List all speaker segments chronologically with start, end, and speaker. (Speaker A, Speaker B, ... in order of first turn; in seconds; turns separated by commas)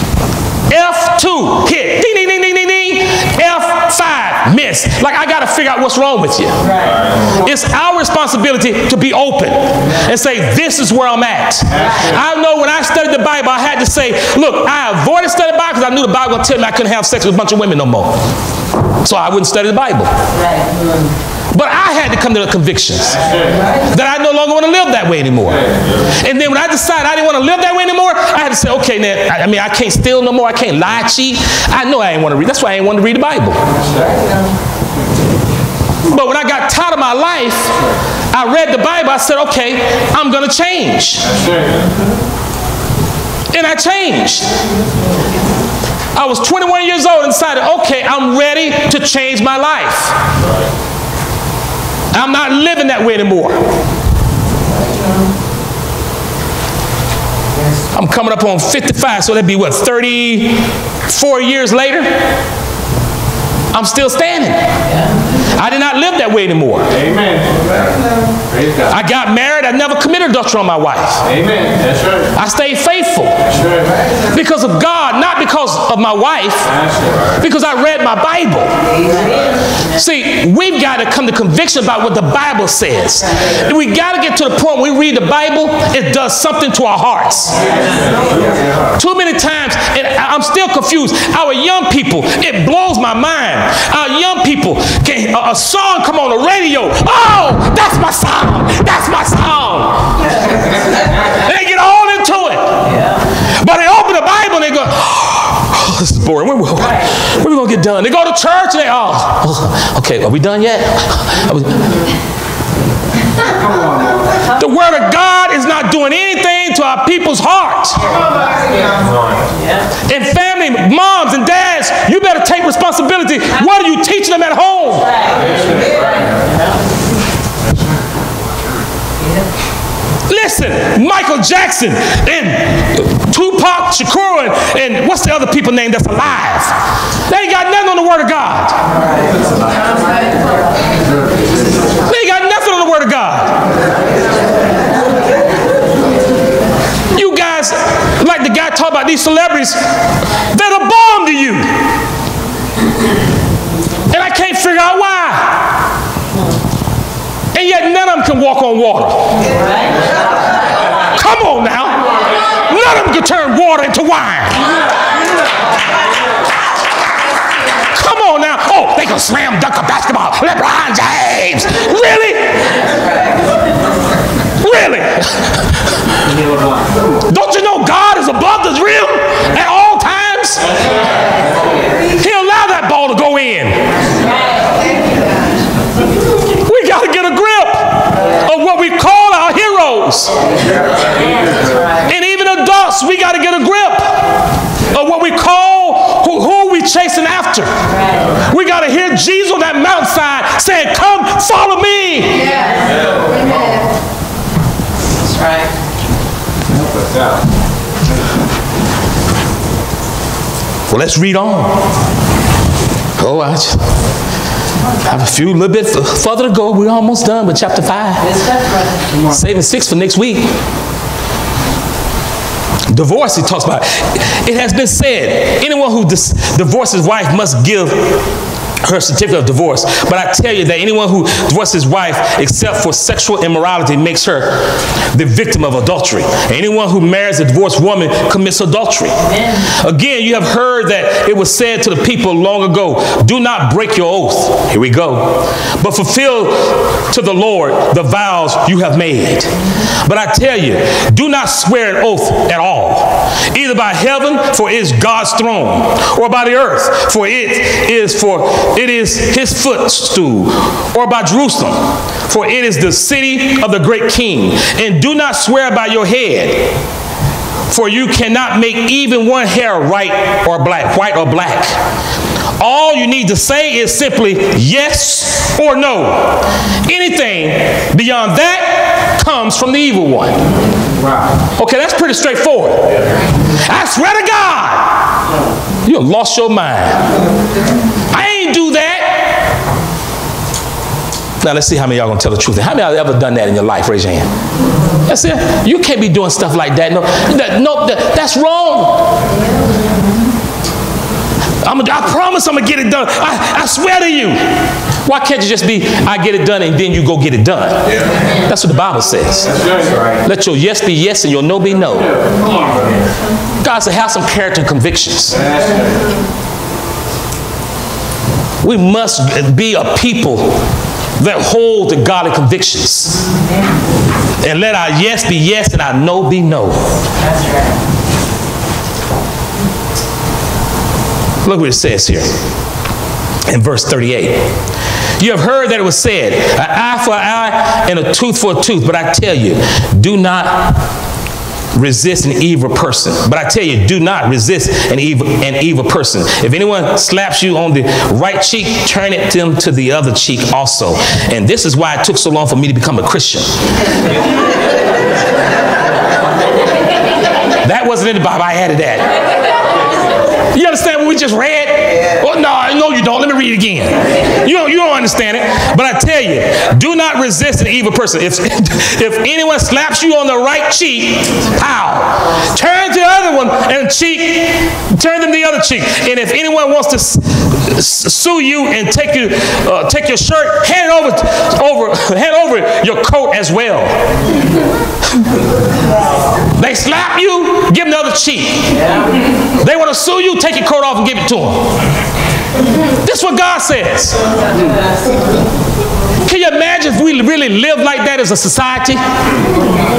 Speaker A: 0.7-6.6, Speaker B: 6.6-7.2, Speaker A: 7.3-18.2, Speaker C: 11.7-12.1, Speaker A: 19.0-20.2, Speaker B: 20.3-21.1, Speaker A: 21.5-23.2, Speaker C: 23.1-23.7, Speaker A: 23.7-33.6, Speaker C: 33.7-34.3, Speaker A: 36.0-37.7, Speaker A: 38.3-41.3, Speaker C: 41.2-42.0, Speaker A: 43.5-44.6, Speaker A: 46.1-50.2, Speaker A: 52.1-53.6, Speaker A: 57.9-62.3, Speaker A: 63.7-64.7, Speaker A: 65.5-66.9, Speaker C: 66.9-67.9, Speaker C: 68.5-68.9, Speaker A: 68.9-71.2, Speaker C: 71.2-72.3, Speaker A: 72.3-73.4, Speaker C: 73.5-74.1, Speaker A: 74.3-76.7, Speaker C: 76.7-77.2, Speaker A: 77.3-78.8, Speaker B: 79.0-79.6, Speaker A: 79.9-87.6, Speaker A: 89.0-100.0, Speaker A: 101.2-112.0, Speaker C: 113.4-114.4, Speaker A: 114.6-118.2, Speaker B: 118.4-118.9, Speaker B: 119.5-119.9, Speaker A: 120.0-125.2, Speaker B: 125.0-126.6, Speaker C: 125.3-126.5, Speaker A: 130.3-138.8, Speaker A: 142.0-143.6, Speaker A: 147.1-151.9, Speaker A: 154.1-155.8, Speaker A: 157.5-159.5, Speaker B: 159.6-159.9, Speaker A: 161.0-164.7, Speaker A: 167.8-172.6, Speaker A: 174.6-175.8, Speaker A: 177.3-180.7, Speaker A: 182.2-183.9, Speaker B: 184.2-184.8, Speaker A: 186.6-190.3, Speaker A: 192.0-194.3, Speaker A: 194.8-197.8, Speaker B: 197.8-198.4, Speaker A: 198.4-202.6, Speaker B: 202.4-203.6, Speaker B: 205.2-205.7, Speaker C: 206.7-207.5, Speaker A: 210.9-211.9, Speaker A: 213.2-213.9, Speaker A: 215.0-218.3, Speaker B: 218.2-219.1, Speaker A: 219.3-220.5, Speaker A: 222.9-228.3, Speaker A: 228.8-266.8, Speaker A: 267.7-271.8, Speaker A: 272.6-280.4, Speaker C: 280.9-281.3, Speaker A: 281.6-283.0, Speaker A: 283.5-285.0, Speaker A: 285.8-287.0, Speaker A: 288.1-289.4, Speaker A: 291.4-294.3, Speaker A: 295.1-299.1, Speaker A: 301.6-309.6, Speaker C: 309.5-310.1, Speaker A: 310.2-312.2, Speaker C: 311.9-313.0, Speaker A: 313.6-315.4, Speaker C: 315.3-316.2, Speaker A: 318.6-320.6, Speaker A: 321.2-323.2, Speaker B: 323.4-323.7, Speaker A: 324.4-326.9, Speaker B: 327.2-327.8, Speaker A: 331.4-332.4, Speaker A: 333.5-334.5, Speaker A: 335.2-340.8, Speaker A: 341.7-353.6, Speaker A: 357.6-359.2, Speaker A: 360.4-384.1, Speaker A: 386.6-389.0, Speaker A: 389.5-391.8, Speaker A: 393.0-394.2, Speaker A: 396.2-399.0